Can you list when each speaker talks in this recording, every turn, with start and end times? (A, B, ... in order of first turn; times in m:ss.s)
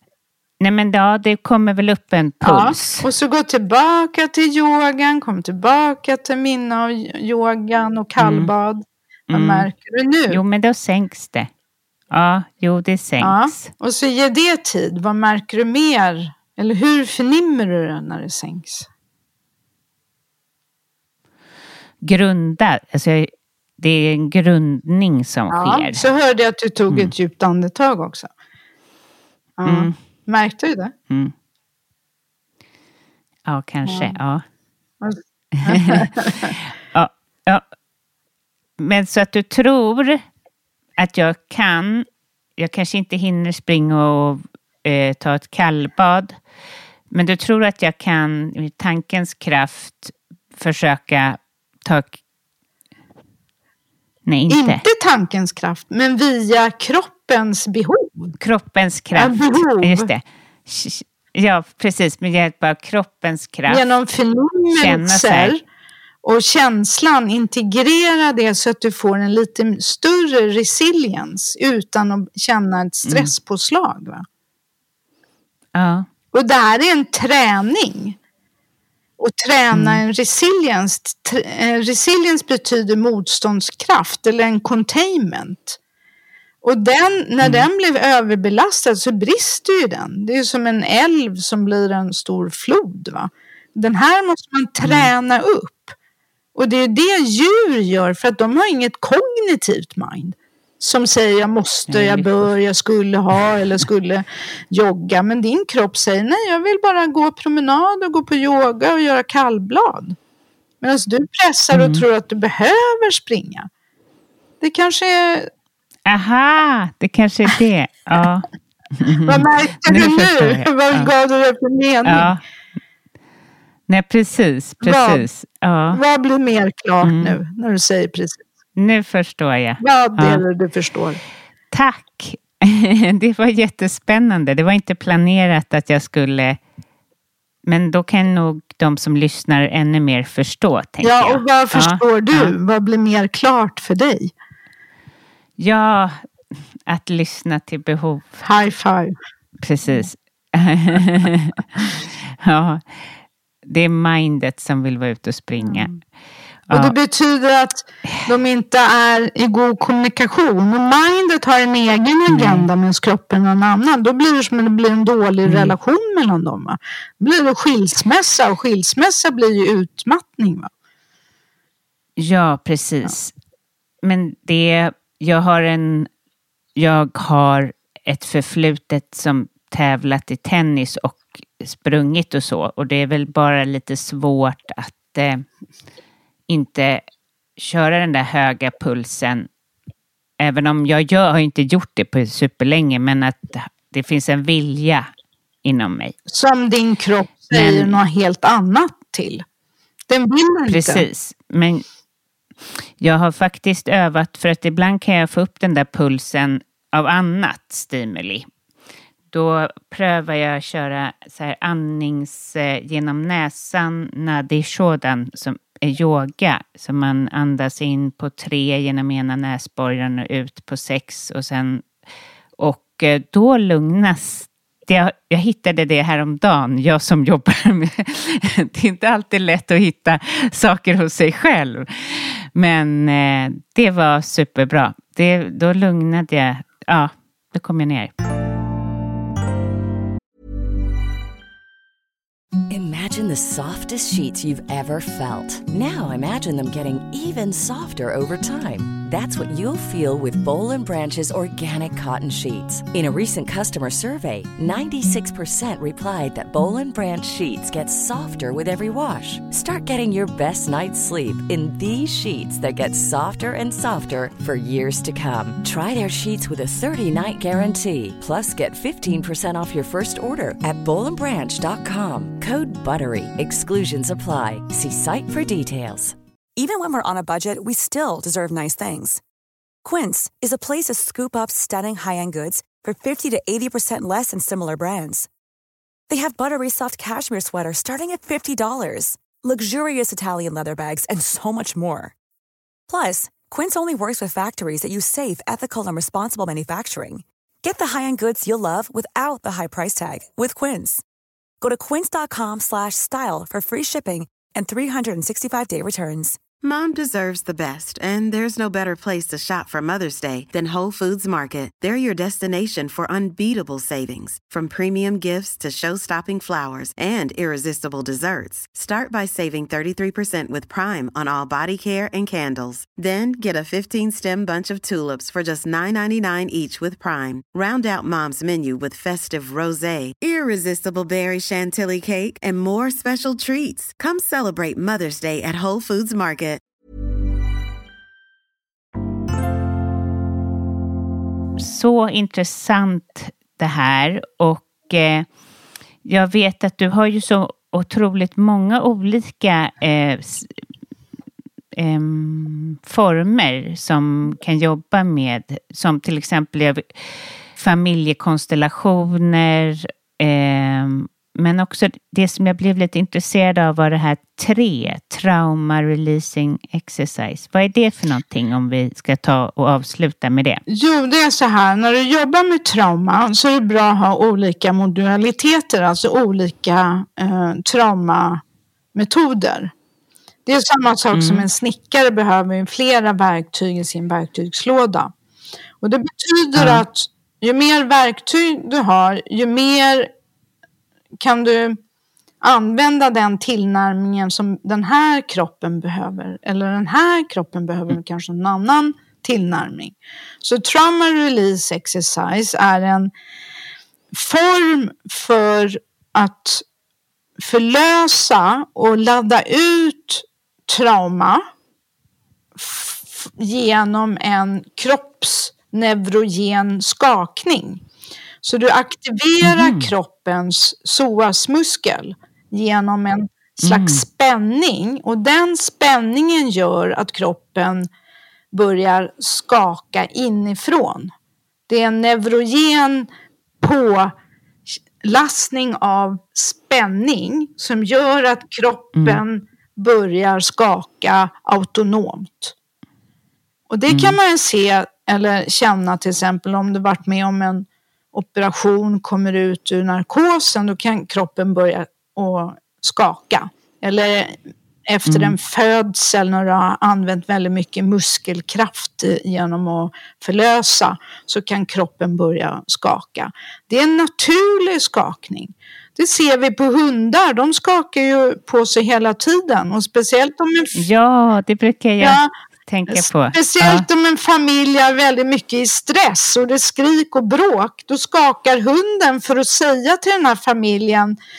0:00.6-0:03.1 A
0:02.4-0:10.4 B
0:08.2-0:08.5 A
0:09.3-0:09.7 A
0:10.3-0:11.5 A
0:12.1-0:13.7 A
0:13.2-0:18.9 B
0:22.0-0:26.0 A
0:25.5-0:28.3 B
0:29.6-0:30.9 B
0:29.6-0:30.0 A
0:33.5-0:34.4 A
0:33.8-0:34.1 B
0:35.0-0:36.5 B
0:35.6-0:37.6 A
0:38.8-0:40.2 A
0:41.0-0:42.0 A
0:42.6-0:46.4 A
0:47.1-0:52.2 A
0:54.3-0:54.8 A
0:54.5-0:58.3 B
0:58.4-1:03.9 A
0:59.1-1:00.1 B
1:03.7-1:05.6 B
1:04.7-1:05.6 A
1:06.2-1:14.2 B
1:13.0-1:13.3 A
1:15.7-1:16.1 A
1:16.3-1:18.2 B
1:19.2-1:25.8 B
1:19.7-1:20.0 A
1:26.6-1:35.9 B
1:27.4-1:27.7 A
1:34.8-1:35.1 A
1:36.5-1:50.2 B
1:41.9-1:42.5 A
1:50.8-1:53.7 B
1:51.7-1:52.0 A
1:54.6-1:55.5 B
1:56.1-2:01.1 A
1:59.2-2:02.3 B
2:02.0-2:02.4 A
2:03.9-2:06.0 A
2:04.8-2:05.3 B
2:05.9-2:08.4 B
2:07.0-2:07.4 A
2:08.8-2:10.4 A
2:09.8-2:11.2 B
2:11.7-2:16.6 A
2:17.6-2:22.5 A
2:21.0-2:24.3 B
2:25.6-2:26.2 A
2:26.9-2:28.4 A
2:28.4-2:29.2 B
2:29.6-2:32.9 A
2:33.6-2:36.0 A
2:35.6-2:35.9 B
2:36.7-2:36.9 A
2:36.7-2:50.7 B
2:42.3-2:42.7 A
2:45.4-2:45.7 A
2:52.2-2:53.3 A
2:54.0-2:56.1 A
2:56.8-3:05.4 A
3:06.5-3:07.0 A
3:07.6-3:09.5 A
3:10.4-3:15.1 A
3:15.6-3:16.2 A
3:16.3-3:19.4 B
3:17.5-3:18.0 A
3:20.1-3:21.1 B
3:20.7-3:21.8 A
3:23.0-3:28.5 A
3:29.3-3:41.8 A
3:42.6-3:58.1 A
4:02.7-4:36.2 C
4:36.6-4:39.2 D
4:39.8-4:45.3 D
4:46.1-4:52.1 D
4:52.9-5:01.0 D
5:01.6-5:06.4 D
5:06.6-5:36.6 E
5:41.6-5:45.3 A
5:46.0-5:50.5 A
5:51.8-5:56.9 A
5:57.6-6:10.6 A
6:10.7-6:18.4 B
6:18.9-6:19.7 B
6:20.4-6:25.1 B
6:21.1-6:21.5 A
6:25.8-6:30.1 B
6:26.6-6:26.8 A
6:31.2-6:31.8 B
6:32.4-6:43.1 B
6:44.1-6:46.6 B
6:47.4-6:51.4 B
6:52.6-6:57.8 B
6:58.4-7:07.9 B
6:59.4-6:59.9 A
7:03.6-7:04.0 A
7:08.5-7:11.1 B
7:11.7-7:13.1 B
7:13.6-7:14.1 B
7:14.7-7:22.5 B
7:19.0-7:19.2 A
7:23.7-7:50.8 B
7:23.9-7:24.2 A
7:35.0-7:35.4 A
7:50.8-7:53.8 A
7:52.0-7:52.3 B
7:52.9-8:01.2 B